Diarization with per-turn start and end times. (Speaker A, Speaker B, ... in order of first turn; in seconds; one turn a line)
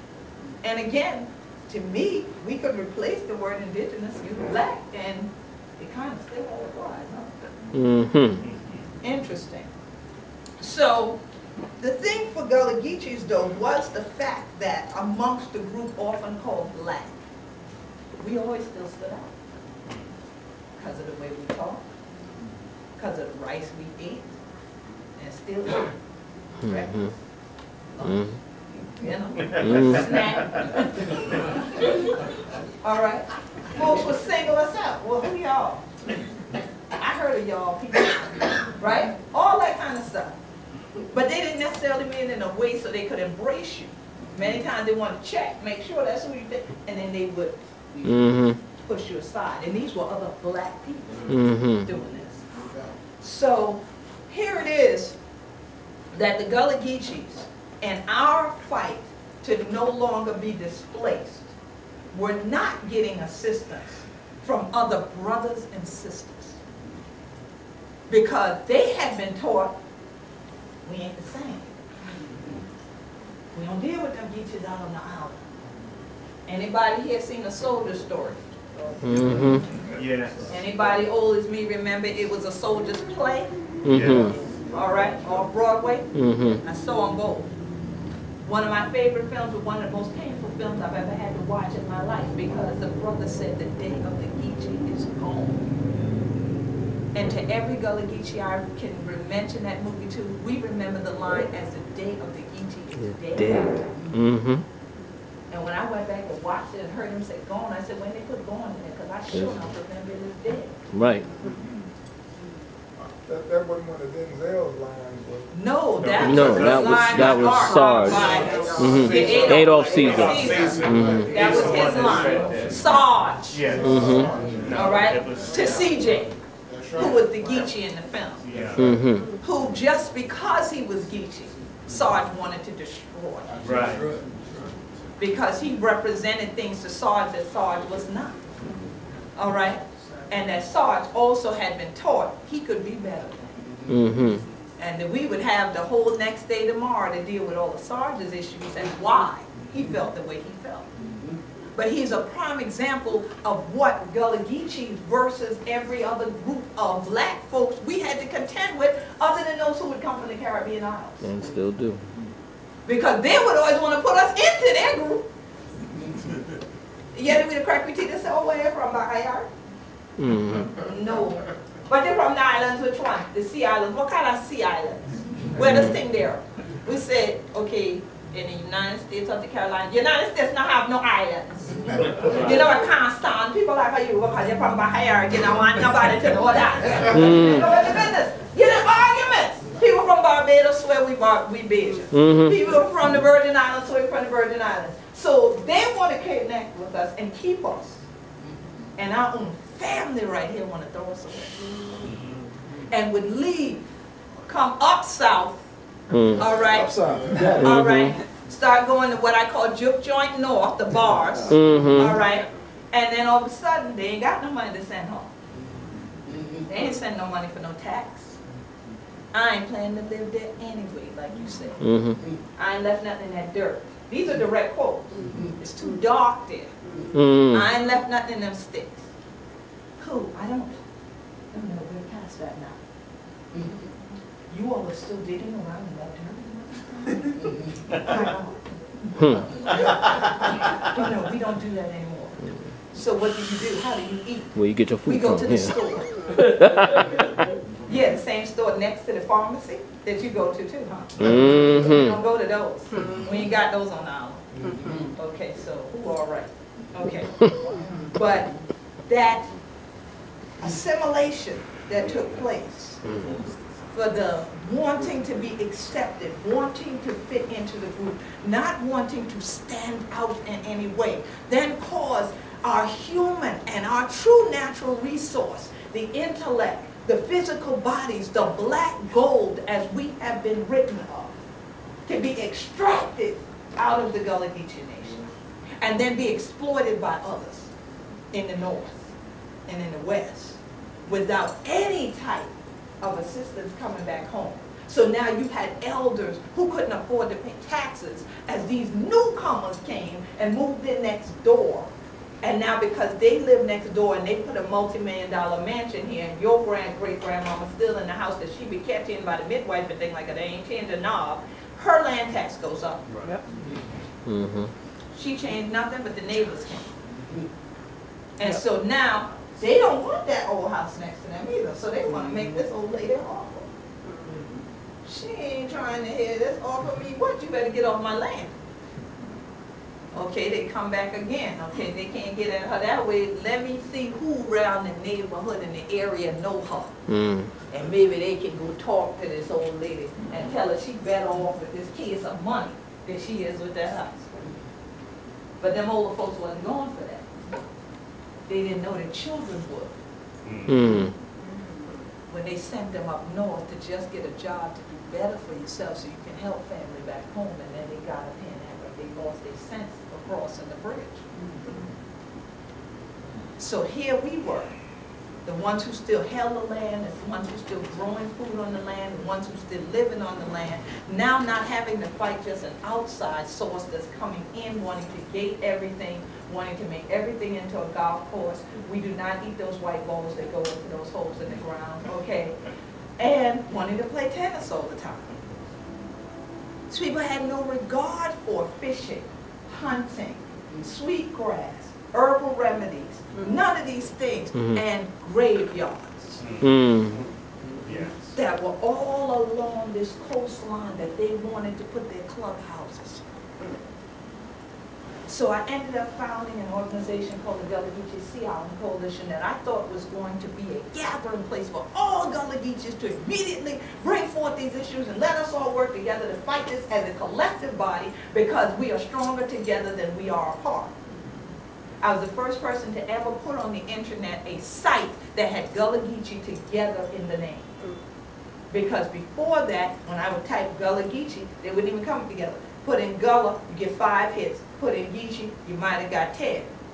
Speaker A: 0.6-7.3
Speaker B: 7.7-8.5
Speaker A: 9.0-9.7
Speaker A: 10.6-11.2
Speaker A: 11.8-17.2
Speaker A: 18.2-19.3
Speaker A: 20.8-21.9
Speaker A: 23.0-24.4
Speaker A: 25.2-25.9
Speaker A: 26.6-27.2
Speaker A: 27.9-28.3
Speaker B: 28.1-28.3
Speaker A: 29.0-31.9
Speaker B: 29.6-30.0
Speaker A: 32.8-35.8
Speaker A: 37.0-40.4
Speaker A: 41.1-47.6
Speaker B: 48.0-48.6
Speaker A: 48.8-52.4
Speaker B: 51.3-51.9
Speaker A: 53.2-55.2
Speaker A: 56.1-61.5
Speaker A: 62.1-66.6
Speaker A: 68.1-69.8
Speaker A: 70.8-71.8
Speaker A: 73.5-75.4
Speaker A: 76.5-79.4
Speaker B: 79.0-79.7
Speaker C: 79.9-80.5
Speaker A: 80.5-83.5
Speaker B: 83.8-84.3
Speaker C: 83.9-84.3
Speaker A: 84.3-86.1
Speaker B: 86.1-86.6
Speaker A: 86.6-87.5
Speaker A: 88.4-95.7
Speaker A: 97.1-103.8
Speaker B: 103.0-104.6
Speaker A: 105.5-110.8
Speaker B: 110.9-111.3
Speaker D: 113.2-115.5
Speaker A: 115.5-123.7
Speaker C: 116.0-117.6
Speaker B: 116.2-121.3
Speaker D: 118.5-119.0
Speaker C: 119.2-126.1
Speaker B: 123.8-124.4
Speaker A: 124.7-126.3
Speaker A: 126.9-128.5
Speaker C: 128.4-129.0
Speaker B: 128.8-129.3
Speaker A: 129.4-133.5
Speaker C: 133.6-134.1
Speaker D: 133.8-134.5
Speaker A: 135.2-138.4
Speaker A: 139.4-143.6
Speaker B: 143.9-144.4
Speaker A: 144.8-150.9
Speaker A: 151.8-161.2
Speaker B: 161.2-162.0
Speaker A: 162.9-165.3
Speaker A: 167.1-169.5
Speaker B: 170.2-170.7
Speaker A: 170.8-198.0
Speaker C: 182.2-182.7
Speaker B: 187.1-187.6
Speaker B: 192.1-192.6
Speaker A: 199.0-201.7
Speaker A: 202.9-203.9
Speaker A: 204.5-205.7
Speaker B: 206.1-206.5
Speaker A: 206.3-206.9
Speaker D: 206.7-207.8
Speaker B: 207.6-208.2
Speaker A: 207.6-215.3
Speaker B: 211.5-212.2
Speaker A: 216.7-218.4
Speaker A: 219.3-221.8
Speaker B: 221.8-222.2
Speaker A: 222.6-226.7
Speaker B: 227.1-227.7
Speaker A: 227.5-229.1
Speaker A: 230.0-230.8
Speaker A: 231.5-232.8
Speaker A: 234.5-242.4
Speaker A: 242.9-246.1
Speaker B: 244.6-245.8
Speaker B: 246.3-247.2
Speaker A: 247.9-254.4
Speaker B: 251.2-252.2
Speaker A: 255.2-257.5
Speaker A: 258.1-258.5
Speaker A: 259.1-259.5
Speaker A: 260.6-263.0
Speaker B: 263.1-263.4
Speaker A: 263.9-281.4
Speaker A: 282.1-285.3
Speaker A: 285.8-287.7
Speaker A: 288.3-289.1
Speaker A: 289.7-301.9
Speaker A: 302.4-313.0
Speaker B: 314.2-314.7
Speaker A: 315.1-317.0
Speaker A: 318.4-323.7
Speaker A: 325.1-328.6
Speaker A: 330.1-336.9
Speaker B: 337.1-337.5
Speaker A: 337.7-344.3
Speaker A: 345.6-347.3
Speaker A: 348.5-350.0
Speaker C: 350.4-350.8
Speaker B: 350.7-351.1
Speaker A: 352.3-361.2
Speaker A: 363.6-364.7
Speaker A: 365.4-382.6
Speaker A: 383.2-385.3
Speaker A: 386.9-396.4
Speaker C: 396.4-397.2
Speaker B: 396.6-397.2
Speaker C: 397.8-398.2
Speaker A: 398.3-403.2
Speaker A: 405.3-420.9
Speaker A: 422.0-427.8
Speaker A: 428.7-436.7